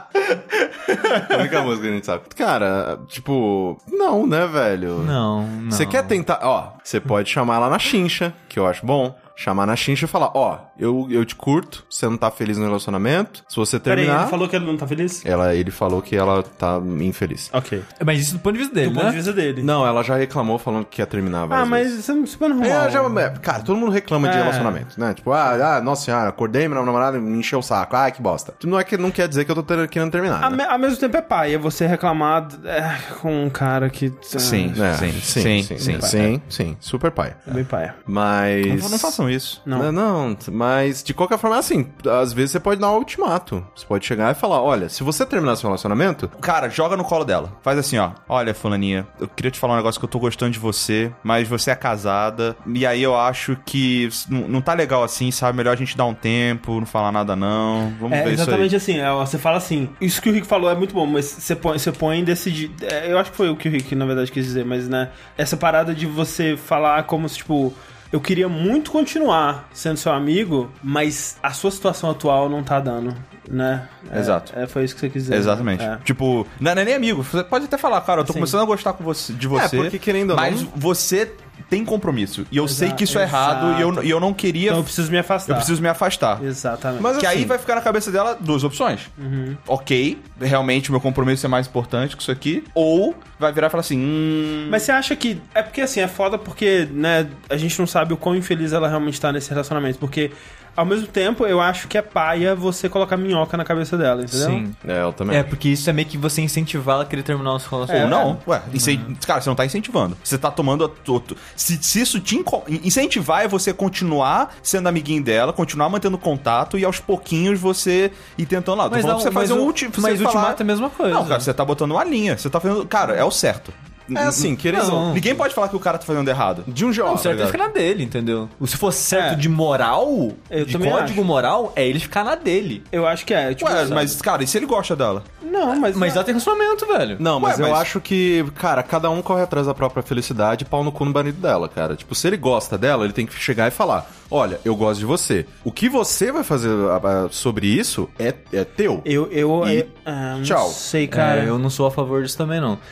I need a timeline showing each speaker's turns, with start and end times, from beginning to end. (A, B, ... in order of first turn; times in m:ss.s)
0:00.2-0:01.6 A
0:01.2-0:05.2 B
0:05.0-0:06.2 C
0:05.7-0:14.4 B
0:13.9-0:15.2 D
0:15.2-0:17.5 B
0:17.5-0:17.9 D
0:18.0-0:19.3 C
0:18.8-0:19.7 D
0:19.6-0:22.0 B
0:21.5-0:23.2 D
0:22.6-0:30.6 B
0:24.2-0:24.8 D
0:30.4-0:35.1 D
0:34.4-0:36.3 A
0:34.8-0:46.3 B
0:35.8-0:36.2 D
0:37.5-0:38.0 D
0:38.7-0:39.6 A
0:39.7-0:39.9 D
0:46.4-0:58.7 A
0:58.1-1:16.0 D
1:14.1-1:14.5 A
1:15.3-1:24.9 A
1:18.2-1:18.6 D
1:19.5-1:20.7 B
1:22.6-1:24.1 D
1:24.7-1:25.7 D
1:25.5-1:26.4 A
1:26.4-1:27.1 D
1:27.0-1:27.6 B
1:27.2-1:29.1 A
1:29.2-1:29.6 D
1:29.7-1:34.8 A
1:34.7-1:44.6 D
1:44.3-1:44.8 C
1:44.8-1:45.5 B
1:45.3-1:49.1 C
1:47.9-1:48.4 D
1:47.9-2:07.6 A
1:58.9-2:01.5 C
2:04.1-2:05.2 B
2:04.7-2:05.3 C
2:06.7-2:07.4 B
2:07.0-2:12.9 C
2:09.1-2:09.4 D
2:10.5-2:11.2 D
2:12.9-2:14.2 D
2:13.6-2:15.3 A
2:15.4-2:16.2 D
2:15.7-2:17.2 C
2:17.2-2:29.1 B
2:17.4-2:17.9 A
2:29.0-2:31.5 D
2:29.6-2:29.9 B
2:30.4-2:30.8 B
2:31.1-2:32.8 C